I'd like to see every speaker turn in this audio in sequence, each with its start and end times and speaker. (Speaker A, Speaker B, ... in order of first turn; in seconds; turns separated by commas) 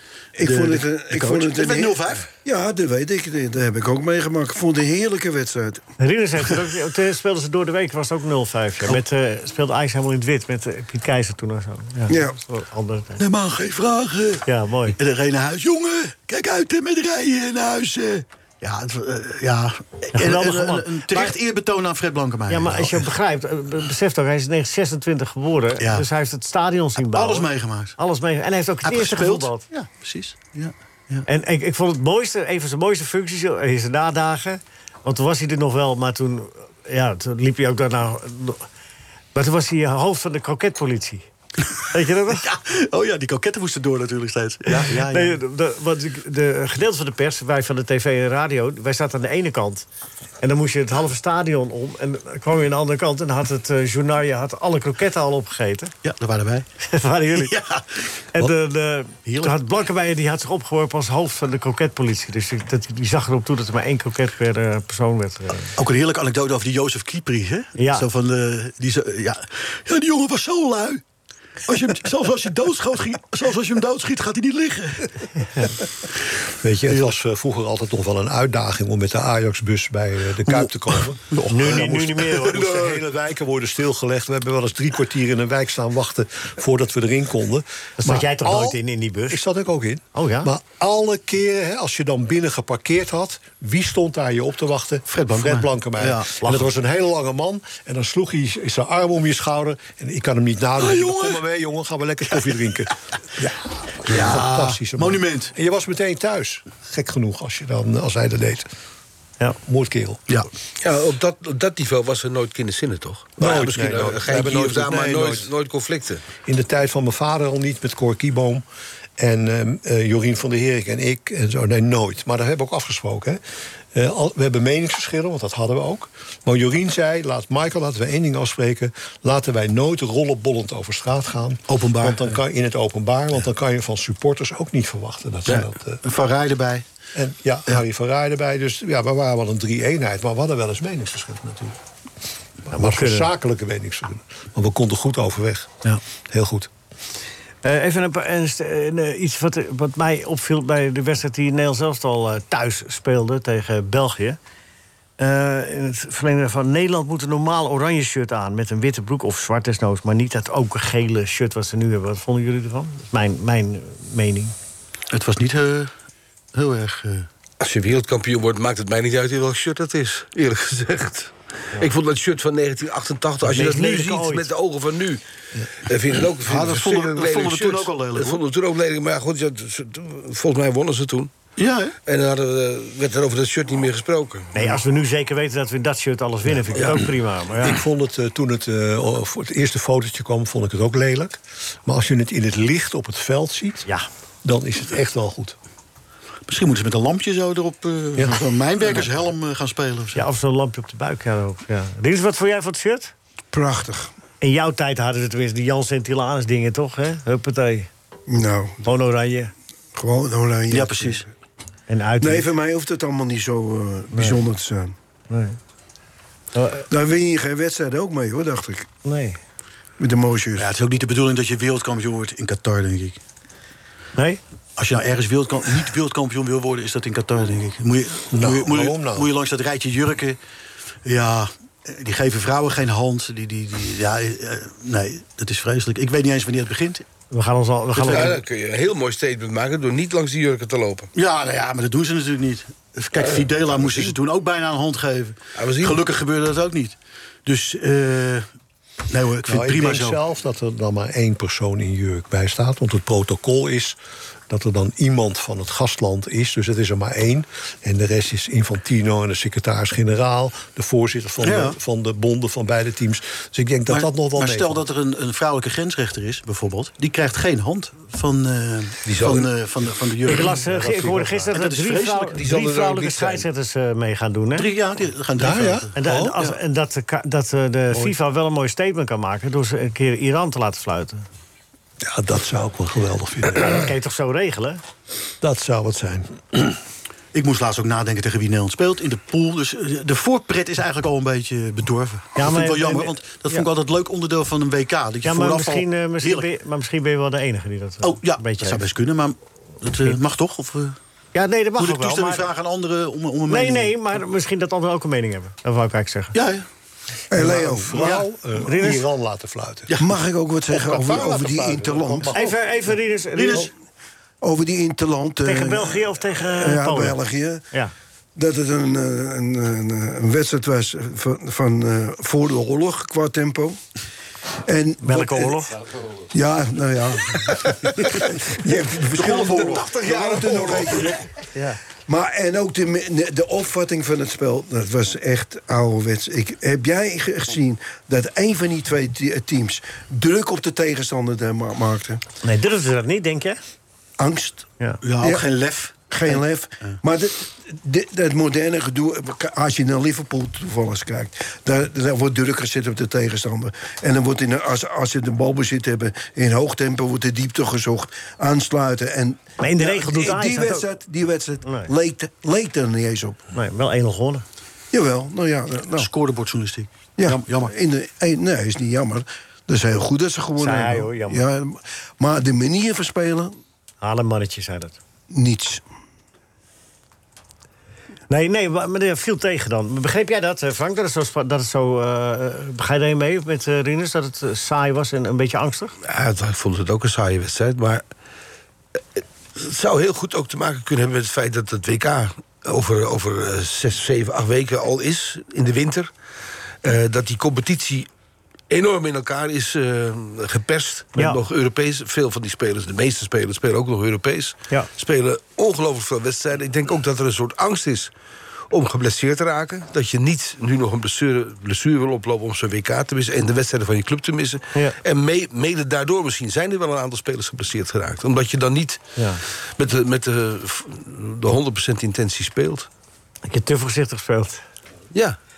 Speaker A: 0.4-5.8, Speaker B: 0.4-2.3, Speaker C: 6.0-13.2, Speaker A: 12.1-12.4, Speaker B: 13.2-14.4, Speaker C: 14.4-15.0, Speaker B: 14.9-23.1, Speaker C: 20.1-21.4, Speaker C: 22.5-29.6, Speaker B: 25.8-26.1, Speaker B: 27.0-27.9, Speaker B: 28.8-31.2, Speaker C: 31.2-38.6, Speaker C: 39.3-41.2, Speaker C: 41.8-42.5, Speaker B: 42.4-45.4, Speaker C: 44.7-49.9, Speaker C: 50.4-55.9, Speaker B: 56.0-56.7, Speaker C: 56.9-57.5, Speaker B: 57.3-58.1, Speaker C: 58.3-65.7, Speaker B: 59.2-59.5, Speaker B: 65.8-71.0, Speaker C: 67.8-68.0, Speaker B: 71.7-75.3, Speaker D: 76.6-108.7, Speaker B: 80.5-82.8, Speaker C: 81.5-82.8, Speaker C: 88.0-89.4, Speaker C: 90.1-90.5, Speaker B: 95.1-96.3, Speaker B: 100.8-101.4, Speaker B: 104.0-105.5, Speaker D: 109.7-110.2, Speaker E: 110.8-116.2, Speaker D: 113.4-115.5, Speaker D: 116.4-118.6, Speaker D: 119.2-123.4, Speaker D: 123.9-136.0, Speaker B: 131.7-132.4, Speaker B: 135.5-136.8, Speaker D: 137.1-141.8, Speaker D: 142.7-145.7, Speaker C: 142.7-143.3, Speaker D: 146.3-146.7, Speaker C: 147.6-154.4, Speaker C: 155.2-164.5, Speaker B: 165.1-165.9, Speaker B: 166.5-167.3, Speaker E: 167.6-175.2, Speaker C: 173.5-174.5, Speaker E: 175.8-181.3, Speaker B: 176.4-178.4, Speaker B: 181.6-181.9, Speaker E: 182.1-184.6, Speaker C: 184.5-187.8, Speaker D: 187.6-193.9, Speaker D: 194.4-195.6, Speaker B: 196.5-200.2, Speaker D: 198.2-198.4, Speaker C: 200.1-203.1, Speaker A: 203.5-204.1, Speaker C: 204.4-207.9, Speaker A: 208.3-208.8, Speaker C: 208.8-209.5, Speaker A: 209.9-211.3, Speaker B: 210.7-211.2, Speaker C: 211.9-212.5, Speaker A: 212.2-214.9, Speaker C: 214.1-214.4, Speaker C: 215.3-215.6, Speaker C: 216.5-216.9, Speaker A: 216.9-218.9, Speaker C: 219.0-219.4, Speaker A: 220.0-220.7, Speaker B: 220.6-223.2, Speaker B: 224.8-230.4, Speaker D: 228.3-229.3, Speaker B: 231.0-237.0, Speaker C: 237.3-238.4, Speaker B: 238.0-238.3, Speaker E: 238.0-241.1, Speaker B: 241.1-246.9, Speaker E: 245.6-246.0, Speaker B: 247.4-248.5, Speaker B: 249.1-250.2, Speaker D: 249.4-254.0, Speaker D: 254.5-264.8, Speaker B: 261.4-261.8, Speaker B: 263.9-270.7, Speaker E: 269.1-269.5, Speaker C: 270.3-274.7, Speaker D: 270.4-271.5, Speaker B: 271.5-272.4, Speaker E: 272.4-273.5, Speaker B: 274.6-276.6, Speaker D: 275.4-276.4, Speaker C: 276.0-281.2, Speaker D: 282.0-283.9, Speaker C: 283.6-284.8, Speaker D: 285.4-286.7, Speaker B: 287.3-296.4, Speaker C: 292.4-293.6, Speaker C: 295.2-298.8, Speaker B: 298.0-300.9, Speaker C: 301.3-302.5, Speaker B: 301.8-303.9, Speaker C: 303.5-306.4, Speaker B: 306.3-306.6, Speaker A: 307.3-308.2, Speaker D: 307.3-309.9, Speaker C: 308.6-309.0, Speaker A: 310.0-312.3, Speaker D: 310.7-312.6, Speaker C: 312.3-313.7, Speaker B: 313.3-313.7, Speaker A: 314.4-317.6, Speaker C: 315.4-317.2, Speaker A: 318.4-323.8, Speaker A: 324.6-325.6, Speaker C: 325.0-325.7, Speaker A: 326.3-331.2, Speaker B: 329.1-331.0, Speaker A: 332.1-342.2, Speaker C: 342.4-343.6, Speaker A: 344.2-344.7, Speaker B: 345.0-346.9, Speaker A: 345.2-345.4, Speaker A: 346.1-363.4, Speaker C: 359.6-360.8, Speaker C: 363.5-364.4, Speaker A: 364.9-366.1, Speaker B: 366.0-367.7, Speaker A: 367.2-373.5, Speaker C: 370.6-371.4, Speaker C: 374.0-375.0, Speaker A: 375.3-375.8, Speaker C: 378.3-385.9, Speaker E: 386.0-388.0, Speaker E: 389.1-396.1, Speaker E: 396.8-398.1, Speaker E: 398.7-408.1, Speaker E: 408.7-419.0, Speaker E: 419.8-422.9, Speaker C: 423.4-424.6